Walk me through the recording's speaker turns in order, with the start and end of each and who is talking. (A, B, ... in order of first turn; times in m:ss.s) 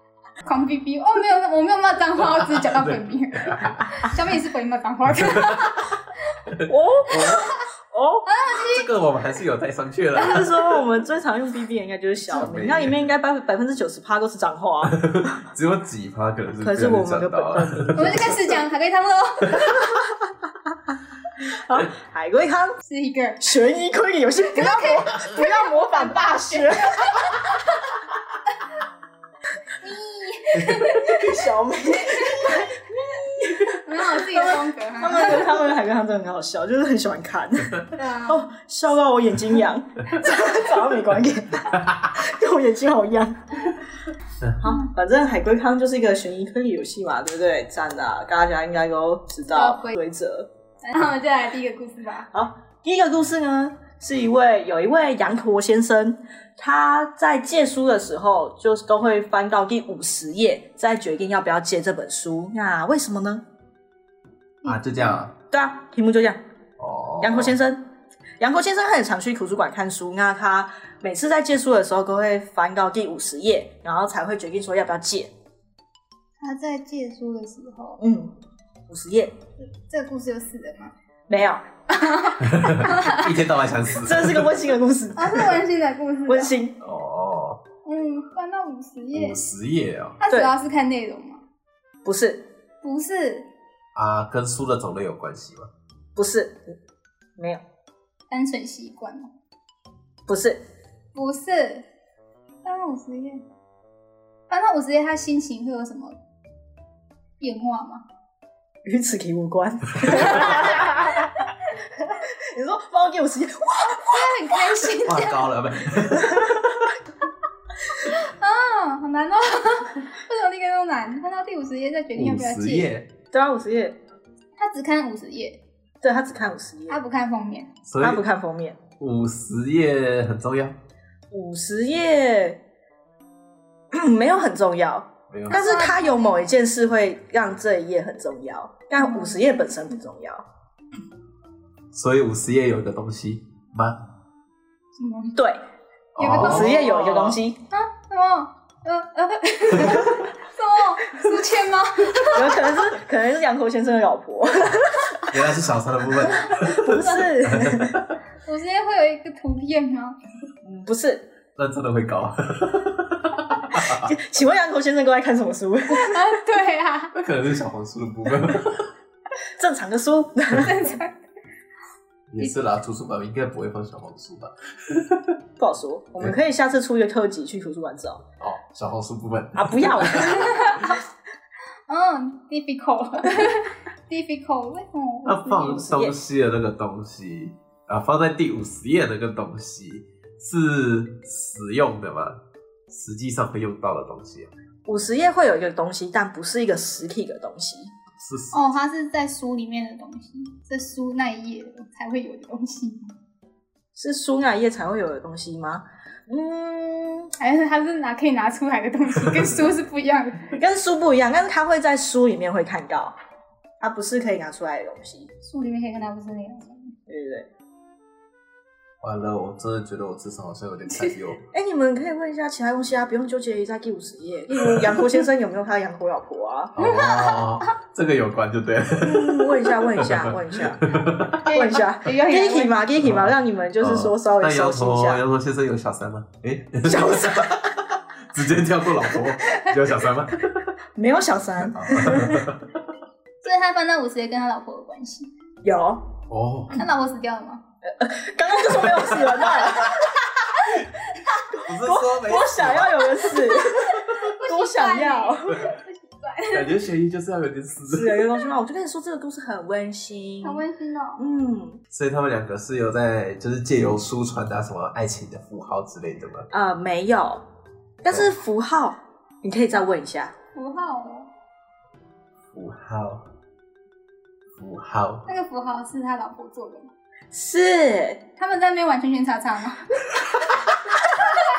0:00.4-0:06.0 A
0:02.4-0:04.1 B
0:05.2-0:05.7 B
0:06.5-0:07.5 B
0:06.6-0:08.3 C
0:08.2-0:08.9 A
0:08.6-0:10.7 B
0:10.1-0:15.0 C
0:12.3-0:13.1 B
0:14.8-0:18.3 B
0:16.6-0:18.5 C
0:17.9-0:20.0 A
0:21.4-0:22.8 C
0:22.8-0:23.4 A
0:23.4-0:27.2 C
0:24.4-0:27.9 A
0:29.7-0:32.7 A
0:30.8-0:43.7 C
0:33.5-0:35.6 A
0:37.9-0:38.5 A
0:44.6-0:50.5 C
0:44.6-0:44.9 A
0:49.5-0:50.0 A
0:50.8-0:52.3 A
0:52.3-1:03.4 C
1:04.6-1:05.2 A
1:04.6-1:05.3 B
1:05.5-1:06.4 C
1:06.8-1:07.6 B
1:07.2-1:07.8 C
1:08.4-1:15.3 C
1:16.4-1:18.0 A
1:18.0-1:18.3 C
1:18.9-1:19.4 C
1:19.7-1:20.9 A
1:21.3-1:22.3 C
1:21.9-1:23.3 A
1:22.4-1:24.6 B
1:24.0-1:25.6 C
1:25.2-1:26.6 A
1:26.3-1:26.8 C
1:26.8-1:27.6 B
1:27.8-1:29.4 A
1:29.1-1:30.2 B
1:30.2-1:31.4 A
1:32.0-1:32.4 C
1:32.8-1:33.5 A
1:33.9-1:35.7 B
1:36.2-1:36.8 C
1:37.4-1:37.6 C
1:38.3-1:39.3 A
1:40.3-1:40.6 C
1:41.1-1:41.8 A
1:42.6-1:43.4 A
1:44.5-1:46.2 A
1:47.4-1:48.0 A
1:48.8-1:54.8 C
1:54.0-1:55.5 A
1:55.0-1:57.0 B
1:56.2-1:56.5 C
1:57.9-2:02.9 A
2:02.2-2:03.1 B
2:03.3-2:04.0 C
2:04.6-2:05.6 A
2:06.0-2:07.0 C
2:06.9-2:07.7 A
2:07.8-2:08.2 B
2:08.0-2:08.8 C
2:09.0-2:10.8 B
2:11.3-2:12.6 C
2:13.9-2:20.4 C
2:15.3-2:15.7 B
2:15.5-2:16.4 A
2:19.0-2:19.4 A
2:21.9-2:24.0 B
2:25.0-2:25.4 A
2:25.3-2:25.6 C
2:26.2-2:27.4 B
2:26.2-2:27.6 C
2:26.2-2:26.9 A
2:27.7-2:32.8 A
2:32.3-2:35.2 C
2:35.2-2:38.1 B
2:36.4-2:36.8 A
2:36.6-2:38.0 C
2:38.4-2:40.2 A
2:40.6-2:41.3 C
2:41.6-2:44.1 B
2:43.7-2:46.4 C
2:45.9-2:47.1 A
2:47.1-2:48.9 B
2:49.6-2:50.9 C
2:50.5-2:51.2 A
2:52.3-2:55.4 B
2:55.6-2:58.2 C
2:58.4-3:00.6 B
2:59.5-3:00.5 C
3:00.1-3:01.0 A
3:01.9-3:05.8 A
3:05.2-3:14.5 B
3:05.5-3:06.1 C
3:14.8-3:17.9 C
3:18.2-3:18.6 B
3:18.5-3:23.1 A
3:23.9-3:27.3 C
3:27.4-3:30.6 A
3:30.5-3:33.1 C
3:33.8-3:35.3 C
3:35.4-3:36.9 A
3:37.1-3:37.5 C
3:39.0-3:41.4 B
3:41.5-3:46.7 C
3:46.8-3:51.5 B
3:46.8-3:47.7 A
3:49.0-3:50.8 C
3:51.4-3:52.8 A
3:51.4-3:55.2 C
3:53.0-4:00.6 B
3:56.8-3:57.7 C
4:00.9-4:02.5 C
4:01.7-4:02.6 B
4:03.4-4:05.3 A
4:05.6-4:06.1 C
4:06.3-4:06.8 B
4:06.7-4:07.6 A
4:07.8-4:10.1 C
4:08.9-4:10.8 B
4:10.6-4:11.5 A
4:11.3-4:15.7 C
4:11.5-4:13.2 B
4:13.1-4:16.8 A
4:16.5-4:18.3 B
4:17.9-4:20.6 C
4:20.4-4:21.2 A
4:21.2-4:21.8 C
4:21.9-4:26.5 B
4:26.5-4:27.4 C
4:28.0-4:30.3 C
4:30.5-4:31.3 A
4:32.5-4:33.3 B
4:34.6-4:35.3 B
4:35.2-4:36.9 A
4:37.3-4:38.2 C
4:38.4-4:40.2 A
4:41.2-4:41.4 A